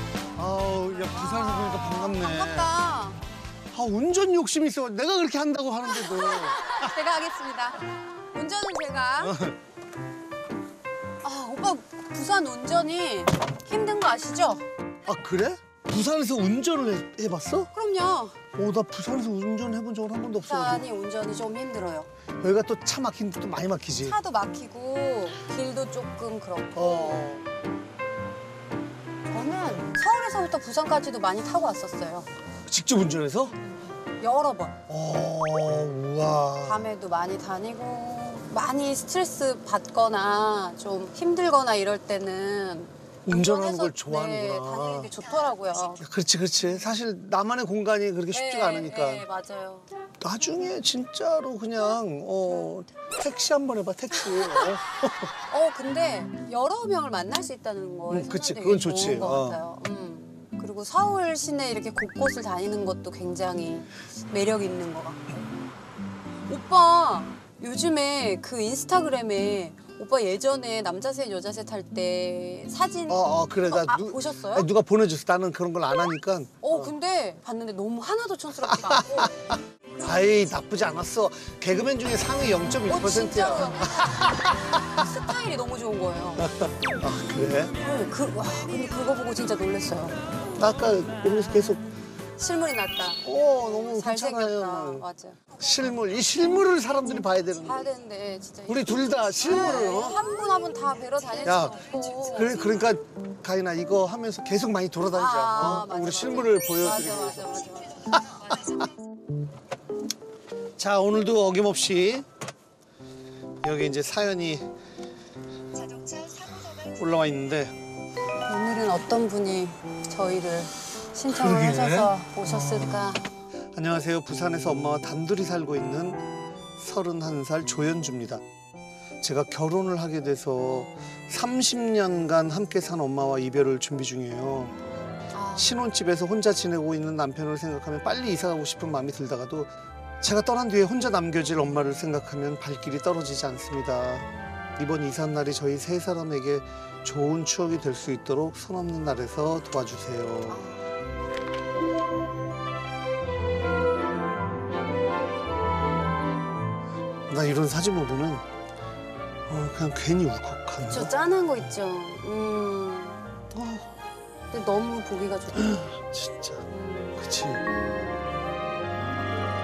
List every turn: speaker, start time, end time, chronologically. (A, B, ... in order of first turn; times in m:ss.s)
0:00.4-0:02.7 A
0:01.1-0:03.2 B
0:03.7-0:07.0 A
0:05.9-0:09.4 B
0:09.2-0:09.6 A
0:11.2-0:14.6 B
0:15.0-0:17.7 A
0:17.7-0:18.4 B
0:18.5-0:20.9 A
0:20.4-0:22.1 B
0:22.4-0:24.2 A
0:24.0-0:27.2 B
0:26.7-0:27.4 A
0:29.3-0:32.3 B
0:32.7-0:33.5 A
0:34.2-0:34.8 B
0:34.9-0:36.9 A
0:36.6-0:46.0 B
0:43.2-0:45.1 A
0:46.0-0:49.2 A
0:48.3-0:49.9 B
0:50.2-0:55.3 A
0:55.5-1:05.5 B
0:58.1-0:59.6 A
1:06.5-1:14.7 B
1:13.1-1:16.9 A
1:16.6-1:19.3 B
1:18.6-1:25.1 A
1:22.9-1:24.2 B
1:24.9-1:26.5 B
1:26.4-1:27.7 A
1:27.8-1:30.2 B
1:30.6-1:31.8 A
1:32.4-1:35.4 B
1:33.2-1:35.0 A
1:35.6-1:37.8 A
1:37.6-1:42.6 B
1:38.7-1:40.2 A
1:41.4-1:41.8 A
1:42.3-1:47.5 A
1:45.1-1:48.6 B
1:48.3-1:48.8 A
1:50.8-1:52.2 A
1:53.6-1:54.7 A
1:56.1-1:57.7 A
1:58.4-2:03.3 B
2:01.3-2:03.2 A
2:03.7-2:06.2 A
2:06.8-2:08.4 A
2:09.2-2:14.8 A
2:15.3-2:15.8 B
2:15.5-2:24.2 A
2:24.8-2:30.6 A
2:30.5-2:30.8 B
2:37.3-2:38.4 A
2:39.5-2:41.1 A
2:40.8-2:43.2 B
2:43.5-2:43.9 A
2:44.5-2:45.8 B
2:45.6-2:46.6 A
2:46.7-2:48.5 B
2:47.2-2:47.6 A